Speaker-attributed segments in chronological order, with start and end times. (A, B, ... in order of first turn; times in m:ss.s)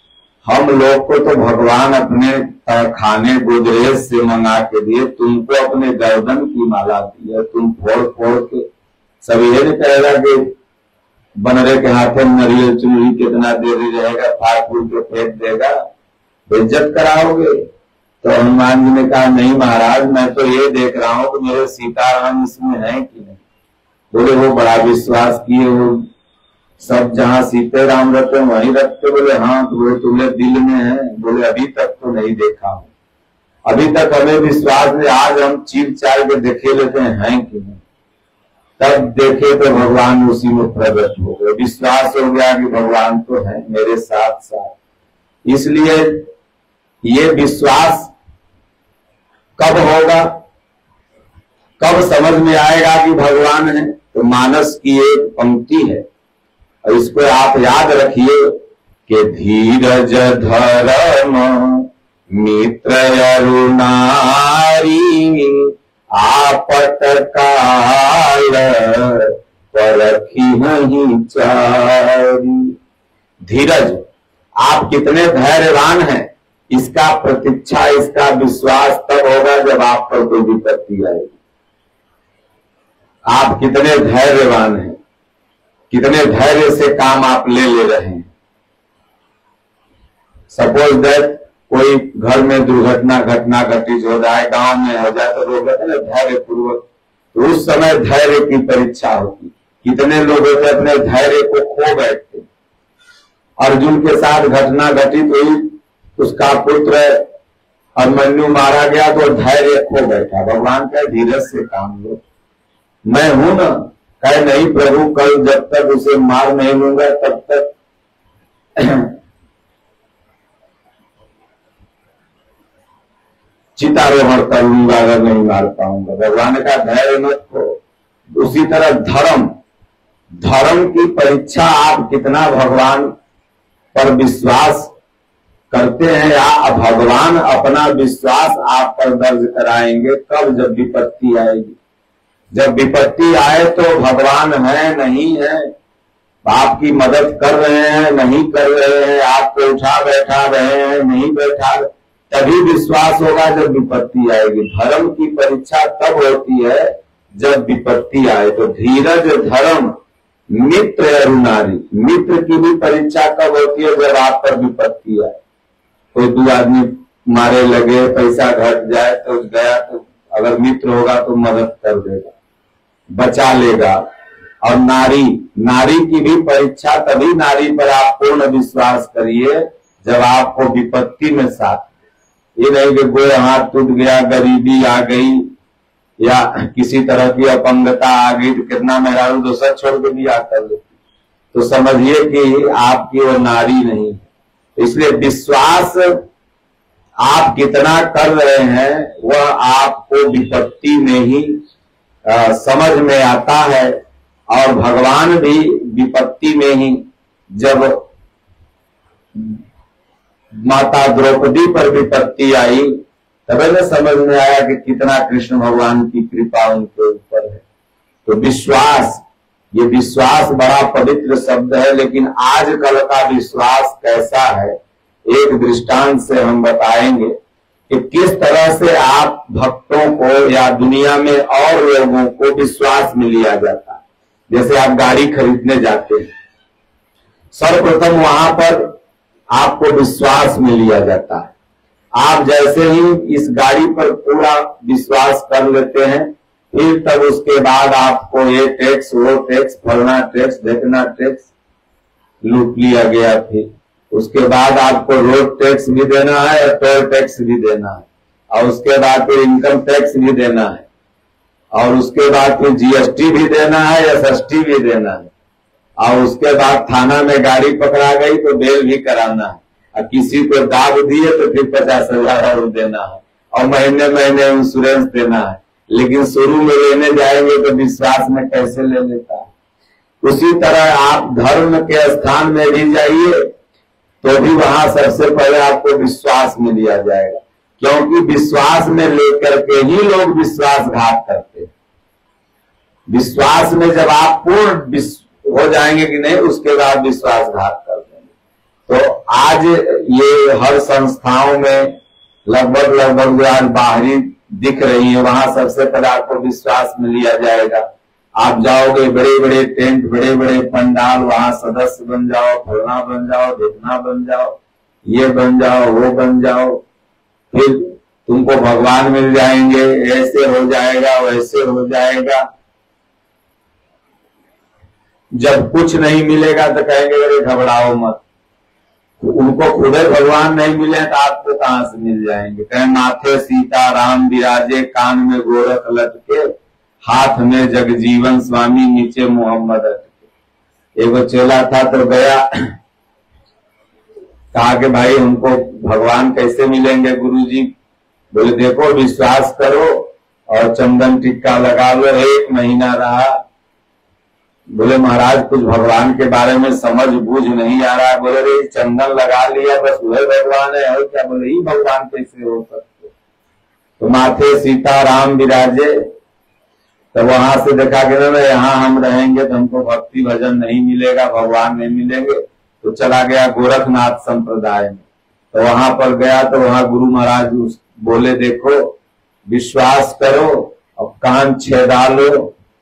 0:00.4-0:08.6 A
0:09.2-0:10.5 A
0:11.4-0:15.8 A
0:16.5-0:17.6 A
0:18.2-0:23.4 A
0:24.1-0:26.0 A
0:26.8-0:32.9 A
0:33.7-0:37.8 A
0:38.8-0:44.7 A
0:45.4-0:46.3 A
0:47.0-0:48.1 A
0:49.6-0:50.4 A
0:51.8-0:56.0 A
0:56.8-1:12.7 A
1:13.4-1:14.0 A
1:14.6-1:21.4 A
1:23.3-1:25.0 A
1:25.9-1:28.3 A
1:30.5-1:36.8 A
1:37.3-1:42.5 A
1:43.6-1:47.2 A
1:48.0-1:52.2 A
1:53.0-1:57.7 A
1:58.8-1:59.1 A
2:03.8-2:07.8 A
2:08.4-2:09.5 A
2:10.4-2:13.1 A
2:13.9-2:14.9 A
2:15.7-2:21.8 A
2:22.5-2:25.7 A
2:26.4-2:39.9 A
2:40.5-2:45.4 A
2:46.1-2:52.3 A
2:53.1-2:54.0 A
2:54.6-3:01.9 A
3:02.6-3:05.5 A
3:06.2-3:10.9 A
3:11.5-3:14.2 A
3:14.8-3:16.2 A
3:17.2-3:21.6 A
3:22.3-3:24.0 A
3:24.5-3:27.0 A
3:27.5-3:28.0 A
3:30.6-3:37.6 A
3:38.2-3:44.7 A
3:45.3-3:47.3 A
3:47.9-3:56.2 A
3:57.5-3:58.9 A
3:59.5-4:01.5 A
4:02.2-4:11.5 A
4:12.4-4:20.8 A
4:21.7-4:25.3 A
4:26.0-4:39.5 A
4:40.2-4:43.5 A
4:44.2-4:51.7 A
4:53.1-4:58.2 A
4:58.9-5:07.8 A
5:08.4-5:16.8 A
5:17.5-5:22.4 A
5:25.4-5:28.2 A
5:29.2-5:36.5 A
5:37.0-5:40.2 A
5:41.0-5:42.4 A
5:44.5-5:47.7 A
5:48.3-5:53.3 A
5:54.7-6:03.1 A
6:04.0-6:06.0 A
6:07.1-6:18.9 A
6:19.5-6:22.5 A